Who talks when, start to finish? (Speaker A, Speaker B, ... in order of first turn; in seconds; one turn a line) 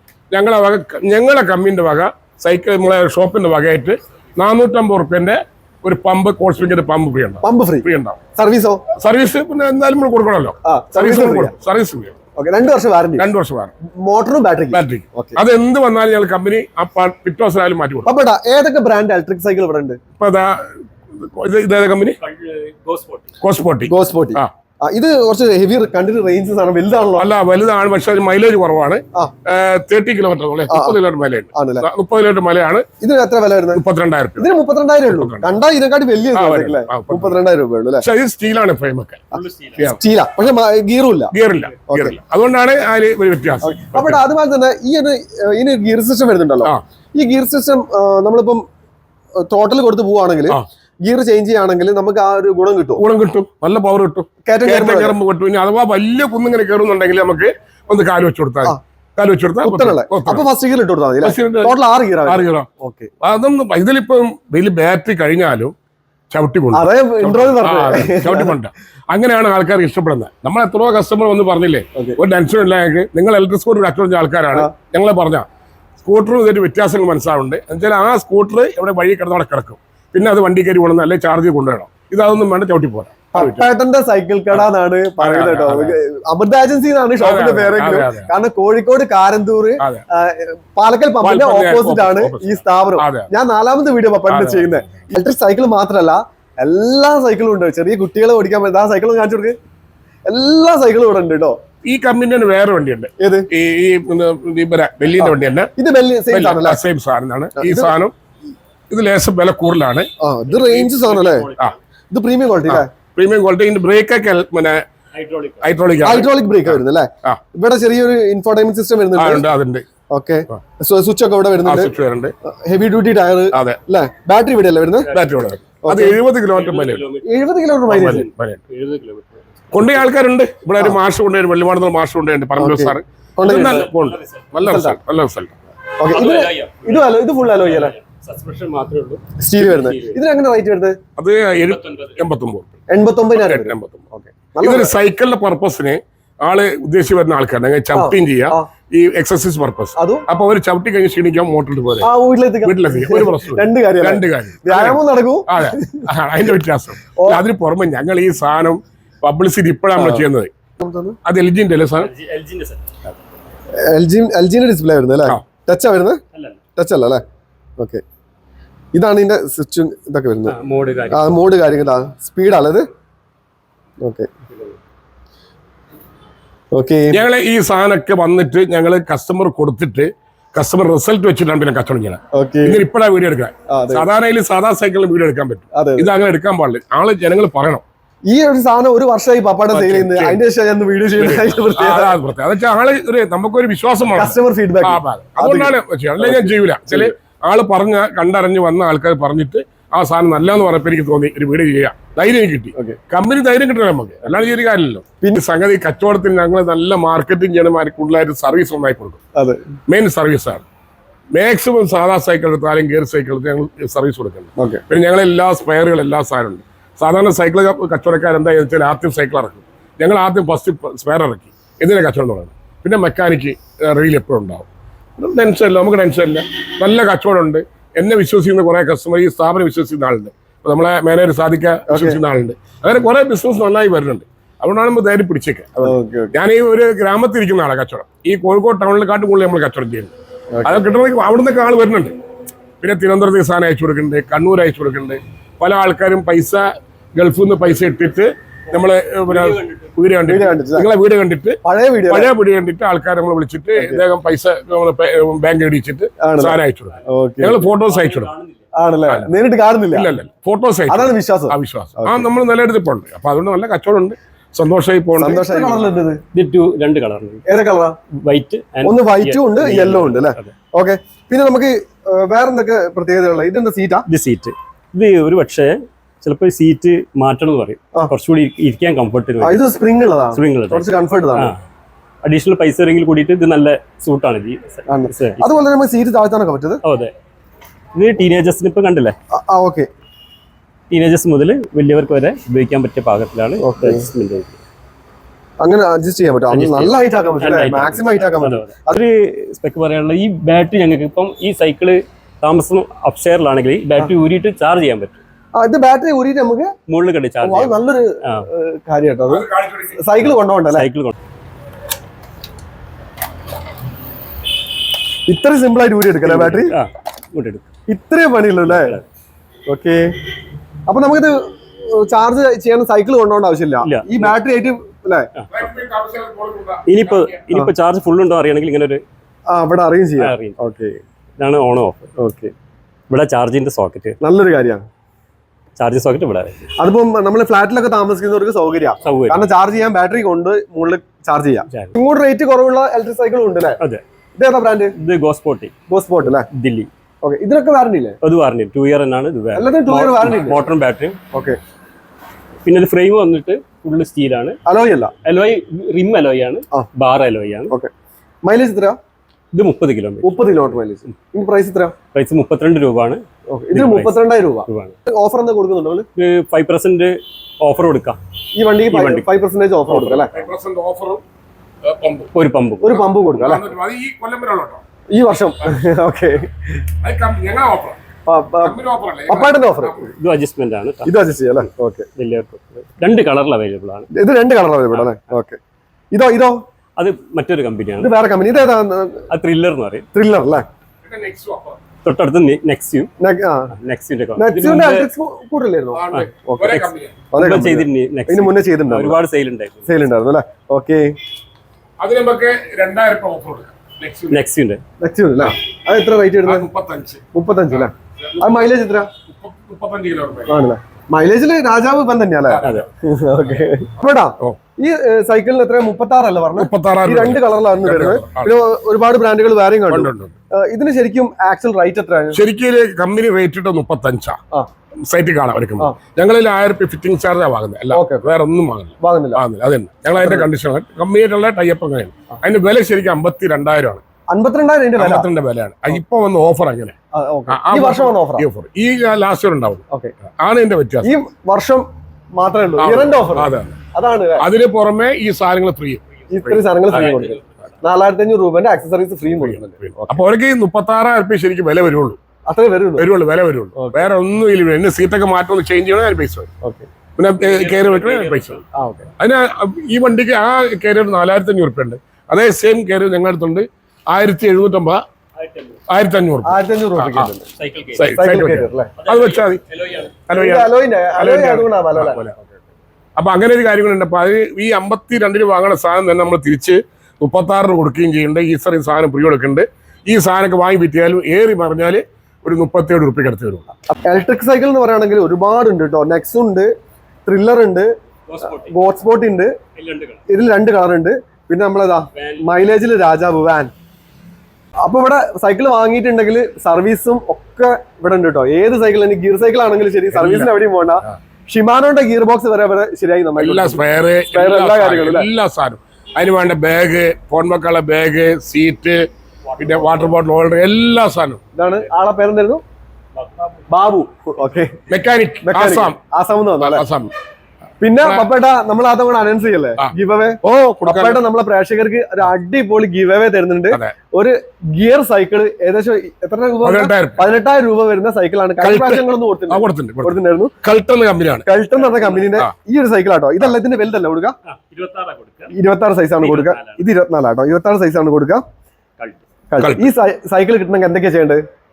Speaker A: 0.3-8.2
Speaker B: 7.4-8.8
Speaker A: 8.9-12.1
Speaker B: 10.6-11.5
Speaker B: 12.4-13.2
Speaker A: 13.2-13.7
Speaker B: 14.0-15.4
Speaker A: 14.7-18.1
Speaker B: 18.0-20.0
Speaker A: 20.2-22.2
Speaker C: 22.2-23.3
Speaker A: 23.4-24.5
Speaker B: 23.9-27.3
Speaker A: 27.2-32.9
Speaker B: 30.7-31.0
Speaker B: 31.5-31.9
Speaker B: 33.0-33.8
Speaker A: 33.7-34.5
Speaker B: 34.4-38.0
Speaker A: 35.0-35.5
Speaker A: 36.3-37.4
Speaker A: 38.0-40.0
Speaker C: 39.3-39.9
Speaker B: 39.8-41.3
Speaker A: 41.3-44.2
Speaker B: 41.9-42.1
Speaker B: 43.6-48.6
Speaker B: 49.4-53.0
Speaker A: 53.0-60.5
Speaker B: 54.5-55.2
Speaker B: 59.6-63.1
Speaker A: 61.2-62.7
Speaker A: 63.2-65.7
Speaker A: 66.3-75.5
Speaker B: 66.7-68.5
Speaker A: 76.0-83.6
Speaker B: 83.3-99.5
Speaker A: 85.2-86.0
Speaker A: 87.2-88.3
Speaker A: 91.2-93.3
Speaker A: 94.3-95.0
Speaker B: 100.3-101.6
Speaker A: 101.8-105.7
Speaker B: 103.2-103.5
Speaker B: 105.2-106.8
Speaker A: 106.3-108.1
Speaker B: 107.5-107.9
Speaker A: 108.9-110.1
Speaker B: 110.2-111.5
Speaker C: 110.5-111.8
Speaker B: 112.1-112.9
Speaker A: 112.7-114.8
Speaker C: 115.1-115.6
Speaker A: 115.6-117.4
Speaker B: 116.0-119.5
Speaker A: 119.1-119.9
Speaker B: 120.1-121.9
Speaker A: 121.6-122.3
Speaker B: 122.4-125.1
Speaker A: 123.5-123.8
Speaker C: 125.0-125.5
Speaker A: 125.1-127.1
Speaker B: 125.8-126.2
Speaker C: 126.5-130.1
Speaker B: 127.2-128.2
Speaker A: 127.9-128.6
Speaker A: 129.7-135.6
Speaker B: 132.6-133.9
Speaker C: 133.4-134.5
Speaker B: 134.6-135.0
Speaker B: 136.0-137.9
Speaker C: 136.1-140.2
Speaker B: 139.4-140.9
Speaker A: 141.2-142.7
Speaker C: 141.7-142.2
Speaker B: 142.9-144.9
Speaker A: 143.3-144.0
Speaker A: 144.6-152.1
Speaker B: 147.9-148.7
Speaker B: 150.0-150.2
Speaker B: 152.0-156.1
Speaker A: 152.6-160.5
Speaker B: 157.2-157.4
Speaker B: 159.9-160.2
Speaker B: 160.8-161.2
Speaker A: 161.2-162.1
Speaker C: 162.0-162.9
Speaker B: 163.8-166.2
Speaker C: 166.3-166.6
Speaker B: 166.8-167.2
Speaker B: 168.9-170.6
Speaker C: 170.5-171.4
Speaker B: 171.1-172.8
Speaker B: 174.0-174.3
Speaker C: 174.5-174.8
Speaker B: 176.7-177.2
Speaker A: 177.1-187.8
Speaker B: 182.3-182.8
Speaker B: 183.7-184.1
Speaker B: 185.7-186.1
Speaker B: 188.3-192.2
Speaker A: 189.7-190.4
Speaker A: 191.2-209.2
Speaker B: 194.2-197.1
Speaker B: 209.3-209.6
Speaker A: 209.9-210.6
Speaker A: 211.3-240.1
Speaker B: 214.6-214.8
Speaker B: 231.9-232.2
Speaker B: 235.8-236.3
Speaker B: 240.5-240.9
Speaker A: 240.6-242.1
Speaker A: 242.8-258.3
Speaker C: 248.7-249.9
Speaker B: 250.3-250.9
Speaker B: 251.6-252.3
Speaker B: 253.8-254.0
Speaker B: 256.2-257.6
Speaker C: 257.7-258.7
Speaker B: 258.7-260.1
Speaker A: 259.9-265.8
Speaker B: 260.9-262.3
Speaker B: 265.2-266.2
Speaker C: 266.3-267.4
Speaker B: 267.5-268.0
Speaker C: 268.2-270.5
Speaker B: 268.8-274.1
Speaker C: 274.1-279.6
Speaker B: 279.4-281.5
Speaker C: 280.3-281.6
Speaker C: 282.2-285.4
Speaker B: 284.9-286.8
Speaker C: 286.8-287.1
Speaker C: 287.9-289.1
Speaker B: 289.3-289.9
Speaker C: 290.9-294.6
Speaker B: 293.6-294.1
Speaker B: 295.6-299.0
Speaker C: 296.5-305.2
Speaker B: 305.6-306.7
Speaker C: 306.9-308.5
Speaker B: 307.4-310.9
Speaker A: 309.3-310.0
Speaker C: 310.3-311.1
Speaker B: 315.3-316.7
Speaker C: 316.2-317.6
Speaker B: 317.9-319.0
Speaker C: 318.6-319.0
Speaker B: 319.7-320.0
Speaker B: 320.9-321.4
Speaker B: 321.9-325.3
Speaker C: 323.8-324.3
Speaker A: 325.5-327.4
Speaker C: 326.9-329.0
Speaker B: 329.5-331.0
Speaker C: 330.2-330.6
Speaker C: 331.4-332.1
Speaker B: 332.2-332.5
Speaker C: 333.1-334.2
Speaker B: 334.2-334.8
Speaker C: 335.8-336.7
Speaker B: 336.8-343.8
Speaker C: 339.0-339.5
Speaker C: 341.7-341.9
Speaker B: 344.4-344.9
Speaker C: 345.0-345.7
Speaker B: 345.9-346.5
Speaker C: 346.5-346.9
Speaker B: 347.2-348.2
Speaker C: 348.2-351.2
Speaker B: 349.5-350.6
Speaker B: 351.3-351.6
Speaker C: 352.6-354.6
Speaker B: 354.6-355.1
Speaker C: 355.2-357.7
Speaker B: 358.4-359.0
Speaker C: 359.5-361.1
Speaker B: 360.2-361.9
Speaker C: 362.1-364.9
Speaker B: 363.5-366.1
Speaker C: 366.1-368.2
Speaker B: 368.6-370.3
Speaker C: 368.9-369.3
Speaker C: 369.9-370.3
Speaker A: 370.3-371.2
Speaker A: 371.8-372.3
Speaker C: 372.3-373.0
Speaker B: 372.8-373.7
Speaker A: 372.9-374.8
Speaker B: 375.1-376.6
Speaker A: 377.0-378.0
Speaker B: 378.3-378.8
Speaker A: 378.6-380.1
Speaker B: 379.3-380.1
Speaker C: 380.1-381.2
Speaker B: 381.0-382.1
Speaker C: 382.2-384.1
Speaker B: 384.1-385.6
Speaker B: 386.1-386.6
Speaker C: 387.0-388.1
Speaker B: 388.0-389.3
Speaker C: 389.3-390.1
Speaker B: 390.1-390.6
Speaker A: 391.0-391.8
Speaker C: 392.0-393.1
Speaker B: 393.2-393.7
Speaker C: 393.7-395.1
Speaker B: 394.4-396.8
Speaker A: 395.9-397.2
Speaker C: 396.1-399.9
Speaker B: 397.3-399.2
Speaker B: 399.9-401.1
Speaker A: 402.0-404.4
Speaker C: 404.3-404.8
Speaker B: 405.0-406.6
Speaker A: 406.4-407.2
Speaker B: 407.3-409.1
Speaker A: 407.7-408.5
Speaker A: 409.3-410.6
Speaker B: 410.5-422.4
Speaker A: 412.5-412.8
Speaker A: 416.6-418.5
Speaker A: 419.9-420.3
Speaker A: 422.3-424.4
Speaker A: 425.1-434.0
Speaker B: 427.9-428.2
Speaker B: 429.0-429.4
Speaker B: 430.2-430.5
Speaker B: 434.3-435.3
Speaker A: 435.0-436.9
Speaker B: 437.1-438.4
Speaker A: 437.5-439.8
Speaker A: 440.4-441.1
Speaker B: 441.0-444.4
Speaker A: 442.8-443.8
Speaker A: 444.4-447.1
Speaker C: 446.3-447.8
Speaker B: 446.3-450.2
Speaker A: 449.4-452.2
Speaker B: 452.5-453.1
Speaker A: 453.0-456.5
Speaker B: 453.8-454.0
Speaker B: 456.6-456.9
Speaker A: 457.2-458.6
Speaker C: 457.4-458.6
Speaker B: 458.7-459.1
Speaker A: 459.2-465.0
Speaker C: 465.4-465.8
Speaker A: 465.9-467.3
Speaker B: 466.4-467.5
Speaker C: 467.6-468.2
Speaker A: 467.9-469.6
Speaker B: 468.1-468.9
Speaker C: 469.0-470.1
Speaker A: 470.3-472.3
Speaker B: 470.3-472.3
Speaker A: 473.2-483.6
Speaker B: 483.9-486.7
Speaker B: 487.2-487.9
Speaker C: 488.3-488.8
Speaker B: 488.7-489.5
Speaker C: 489.8-490.2
Speaker B: 490.3-493.7
Speaker C: 492.1-492.5
Speaker B: 494.8-505.3
Speaker A: 500.1-500.5
Speaker A: 503.4-509.0
Speaker C: 509.5-510.1
Speaker A: 509.6-511.4
Speaker B: 511.6-512.6
Speaker C: 513.1-513.6
Speaker B: 513.7-514.7
Speaker A: 514.9-516.0
Speaker B: 515.4-516.9
Speaker A: 516.6-517.1
Speaker B: 517.8-530.5
Speaker A: 518.0-518.2
Speaker A: 519.8-521.2
Speaker A: 526.6-527.2
Speaker A: 528.6-531.5
Speaker B: 531.4-534.4
Speaker C: 531.7-532.4
Speaker C: 534.4-535.5
Speaker B: 535.5-538.4
Speaker C: 536.2-536.9
Speaker C: 539.0-539.2
Speaker B: 539.5-541.4
Speaker A: 539.6-539.9